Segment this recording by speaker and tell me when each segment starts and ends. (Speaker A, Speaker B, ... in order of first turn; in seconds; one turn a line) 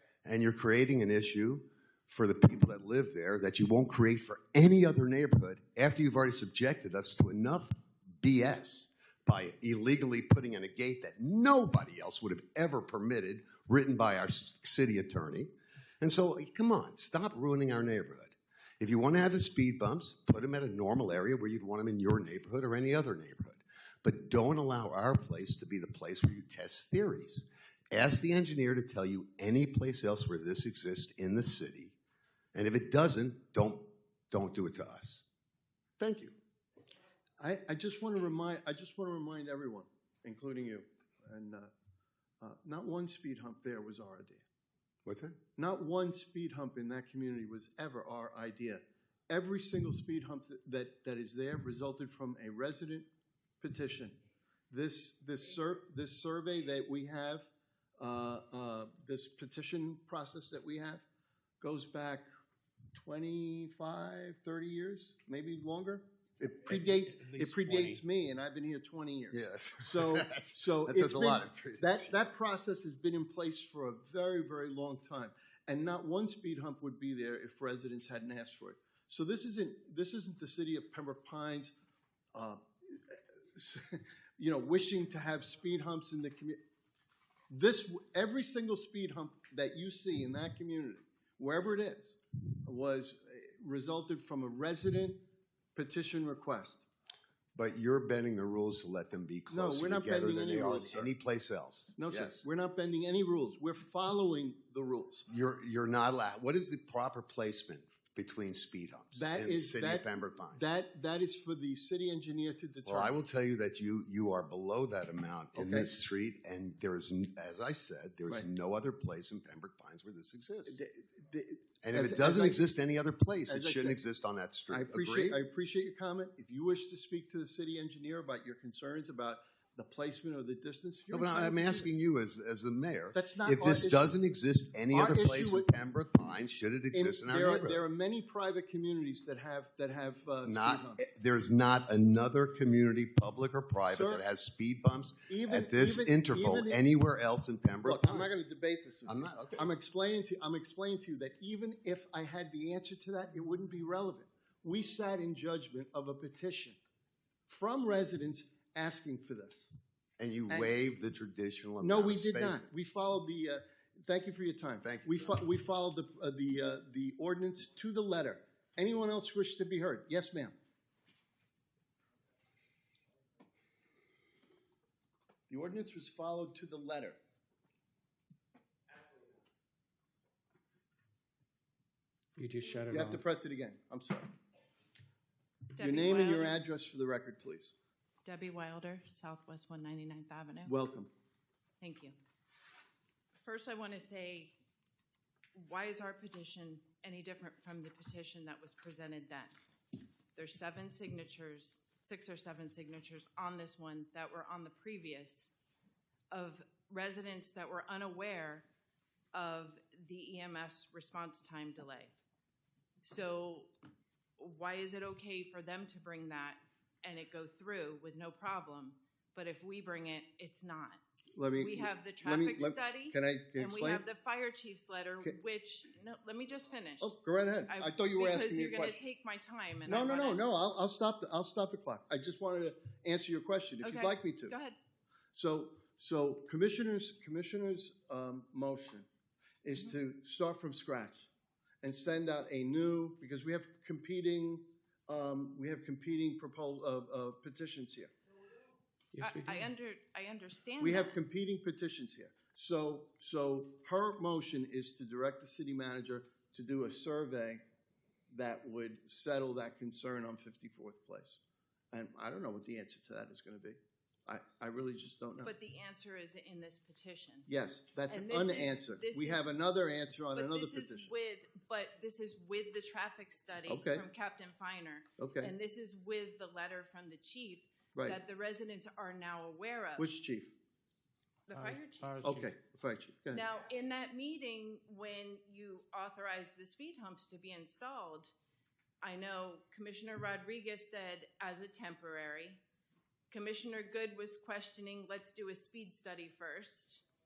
Speaker A: 0.2-15.5
Speaker A: 16.0-31.9
Speaker A: 32.5-35.2
Speaker A: 36.0-36.3
Speaker B: 37.4-41.7
Speaker B: 42.4-44.4
Speaker A: 45.0-45.4
Speaker B: 45.6-53.0
Speaker B: 53.6-54.1
Speaker B: 54.7-61.0
Speaker B: 61.6-62.2
Speaker B: 62.9-81.7
Speaker C: 66.7-68.0
Speaker A: 69.3-72.1
Speaker B: 82.3-86.6
Speaker B: 87.5-95.2
Speaker B: 95.7-96.8
Speaker A: 97.5-102.4
Speaker B: 99.5-101.1
Speaker B: 102.0-105.3
Speaker A: 105.3-110.6
Speaker B: 109.1-113.1
Speaker A: 112.8-120.8
Speaker B: 115.5-116.0
Speaker B: 120.7-122.6
Speaker A: 121.8-125.4
Speaker B: 123.5-124.0
Speaker B: 124.7-131.9
Speaker A: 131.1-137.8
Speaker B: 133.1-134.1
Speaker B: 134.9-135.7
Speaker B: 136.9-141.1
Speaker A: 140.4-148.4
Speaker B: 143.9-144.2
Speaker B: 145.3-146.8
Speaker B: 147.8-156.8
Speaker A: 149.1-149.7
Speaker B: 157.5-159.7
Speaker A: 160.2-162.6
Speaker B: 161.8-170.5
Speaker A: 164.8-165.3
Speaker B: 175.5-177.2
Speaker C: 182.3-183.2
Speaker B: 182.9-184.3
Speaker D: 185.8-186.6
Speaker B: 185.8-187.7
Speaker D: 188.2-190.7
Speaker B: 190.7-191.1
Speaker D: 191.8-192.2
Speaker D: 193.3-194.5
Speaker D: 195.6-199.5
Speaker D: 200.3-205.5
Speaker D: 206.3-208.6
Speaker D: 209.3-212.1
Speaker D: 213.0-213.7
Speaker D: 214.4-221.0
Speaker B: 221.3-224.0
Speaker D: 221.6-227.1
Speaker B: 227.0-229.0
Speaker D: 227.7-230.4
Speaker B: 229.8-234.5
Speaker D: 233.8-234.8
Speaker B: 235.3-239.1
Speaker B: 239.6-241.3
Speaker B: 241.8-248.1
Speaker C: 249.1-249.7
Speaker D: 249.2-251.2
Speaker B: 250.8-257.6
Speaker B: 258.3-261.4
Speaker B: 261.9-265.5
Speaker D: 265.4-267.5
Speaker B: 267.5-271.1
Speaker D: 268.1-269.5
Speaker D: 270.3-280.1
Speaker B: 273.7-274.0
Speaker B: 275.2-275.5
Speaker B: 280.0-280.5
Speaker D: 281.5-282.4
Speaker C: 281.5-282.5
Speaker B: 282.2-283.4
Speaker D: 283.3-288.3
Speaker D: 289.0-292.6
Speaker D: 293.3-297.0